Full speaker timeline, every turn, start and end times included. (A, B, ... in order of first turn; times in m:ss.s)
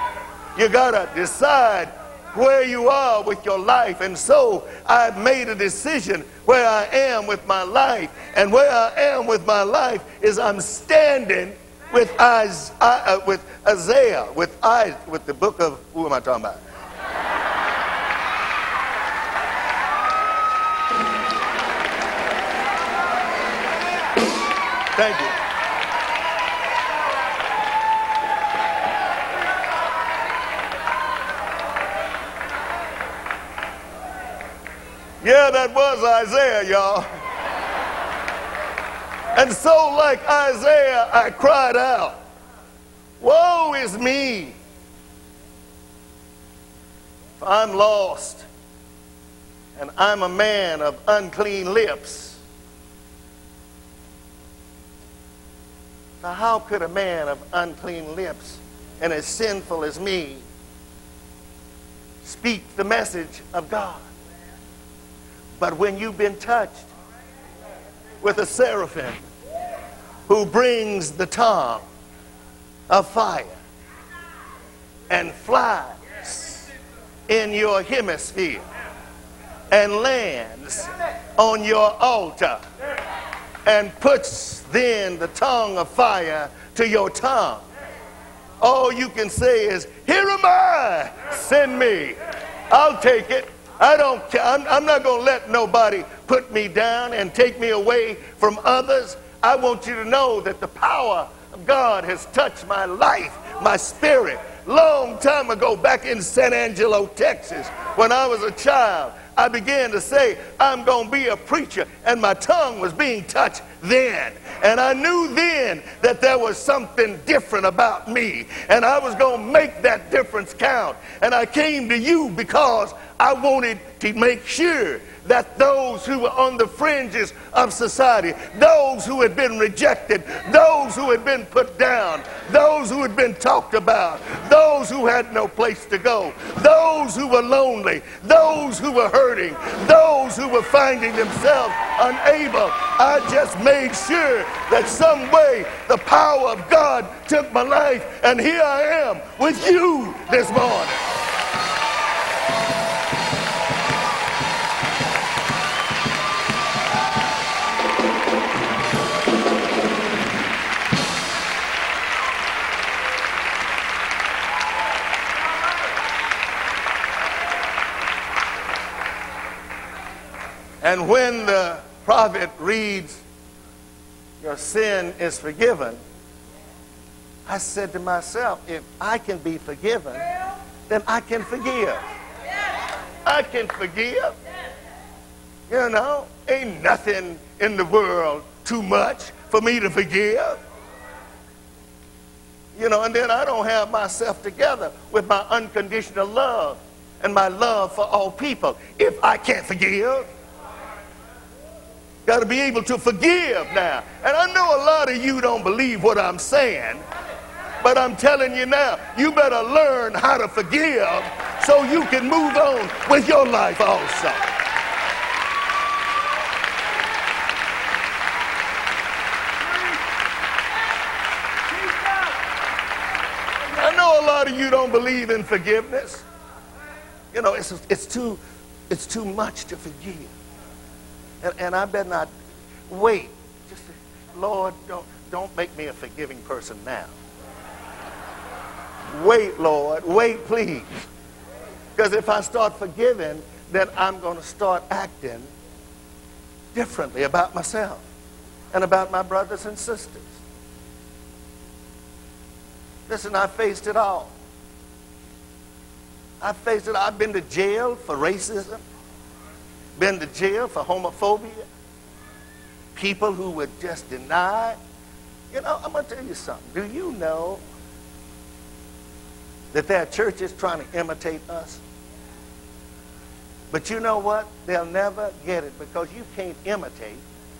0:00.6-0:16.6 A
0:25.0-0:25.3 A
0:35.2-0:37.1 A
0:39.3-0:42.2 A
0:43.2-0:44.6 A
0:47.4-0:48.4 A
0:49.8-0:52.4 A
0:56.2-1:00.4 A
1:02.2-1:04.0 A
1:05.6-1:06.9 A
1:08.2-1:09.2 A
1:10.3-1:11.8 A
1:12.9-1:13.6 A
1:15.1-1:16.6 A
1:17.3-1:18.6 A
1:19.7-1:22.6 A
1:23.6-1:27.6 A
1:28.6-1:32.2 A
1:32.7-2:31.0 A
2:50.8-2:53.2 A
2:54.4-2:56.0 A
2:57.5-3:00.2 A
3:00.9-3:02.0 A
3:03.2-3:04.3 A
3:05.7-3:10.6 A
3:12.8-3:20.3 A
3:22.2-3:27.0 A
3:27.8-3:34.5 A
3:43.8-3:46.2 A
3:47.3-3:50.3 A
3:51.4-3:52.3 A
3:52.9-3:57.1 A
3:59.1-4:01.0 A
4:02.0-4:05.5 A
4:06.7-4:08.0 A
4:08.7-4:10.4 A
4:13.1-4:14.3 A
4:16.4-4:18.8 A
4:20.0-4:21.6 A
4:22.9-4:24.8 A
4:25.5-4:27.6 A
4:29.7-4:31.8 A
4:33.7-4:37.2 A